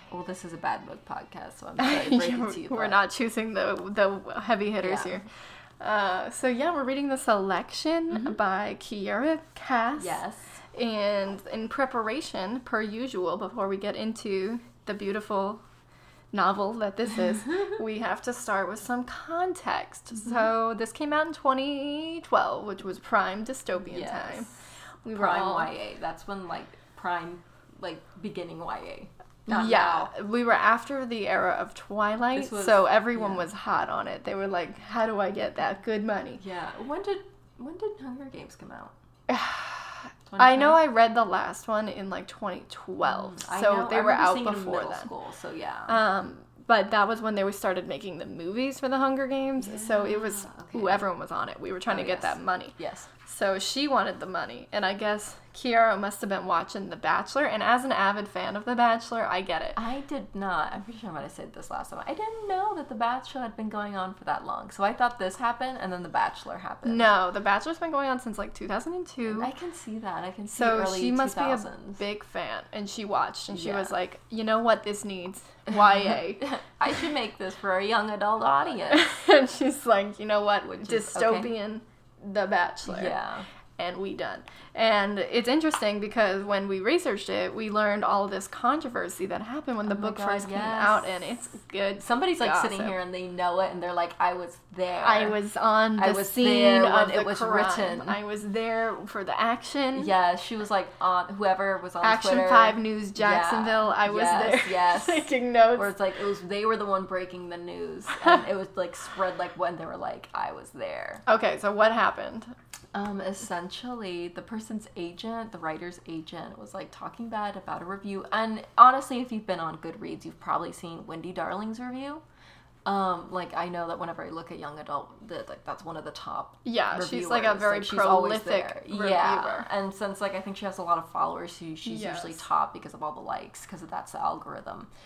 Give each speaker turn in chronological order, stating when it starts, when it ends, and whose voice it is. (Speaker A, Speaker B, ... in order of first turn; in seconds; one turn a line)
Speaker A: 0.1-3.0
Speaker B: 1.8-5.3
Speaker A: 4.8-5.1
Speaker B: 5.8-10.2
Speaker A: 10.0-10.5
Speaker B: 10.7-15.6
Speaker B: 16.3-24.5
Speaker A: 23.8-24.5
Speaker B: 25.0-25.7
Speaker A: 25.1-30.1
Speaker B: 29.5-36.4
Speaker A: 32.3-33.5
Speaker A: 36.4-38.9
Speaker B: 39.3-45.1
Speaker A: 40.2-40.8
Speaker A: 43.0-46.0
Speaker B: 45.9-59.8
Speaker A: 49.6-51.0
Speaker A: 51.9-53.1
Speaker A: 59.8-67.1
Speaker B: 66.8-69.5
Speaker A: 69.2-72.0
Speaker B: 70.5-76.4
Speaker A: 73.5-73.9
Speaker A: 76.4-79.2
Speaker B: 78.9-83.2
Speaker A: 80.7-81.5
Speaker A: 82.8-83.5
Speaker B: 83.8-93.0
Speaker A: 89.9-91.1
Speaker A: 92.0-95.4
Speaker B: 95.0-100.1
Speaker A: 96.0-98.2
Speaker A: 99.9-111.2
Speaker B: 102.0-105.9
Speaker B: 111.3-112.5
Speaker A: 112.9-122.2
Speaker A: 122.9-134.9
Speaker B: 126.7-129.7
Speaker B: 131.9-132.4